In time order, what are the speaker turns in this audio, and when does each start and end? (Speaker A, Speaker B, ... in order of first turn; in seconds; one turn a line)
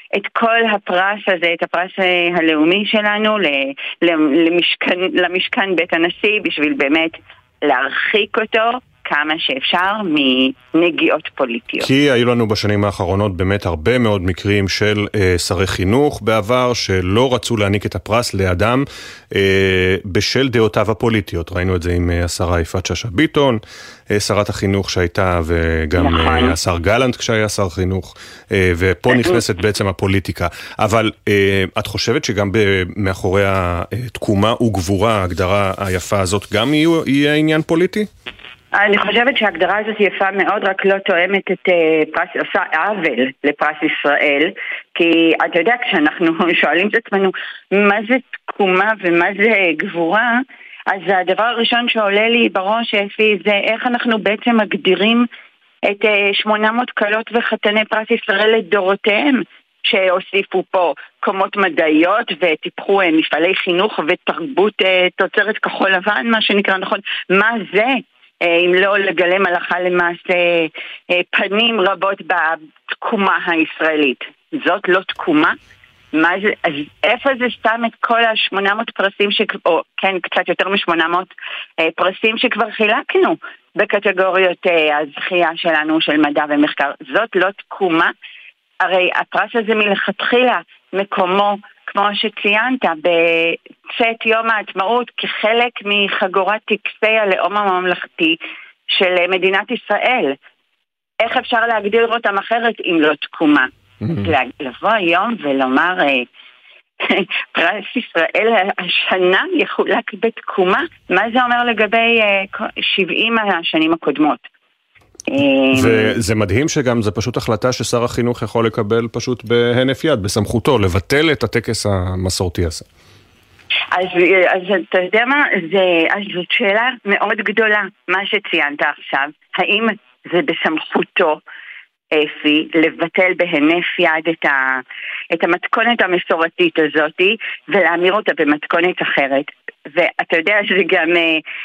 Speaker A: 0.1-11.9
Speaker B: 11.8-23.6
Speaker B: 24.1-38.1
Speaker A: 25.9-26.6
Speaker A: 29.1-29.4
Speaker A: 38.7-55.3
Speaker A: 55.9-75.5
Speaker A: 76.1-81.3
Speaker A: 81.8-88.1
Speaker A: 88.8-98.4
Speaker A: 98.9-100.3
Speaker A: 101.2-106.2
Speaker B: 104.0-104.3
Speaker A: 107.0-114.4
Speaker A: 115.3-116.1
Speaker B: 115.7-122.8
Speaker A: 123.9-131.4
Speaker A: 132.1-141.4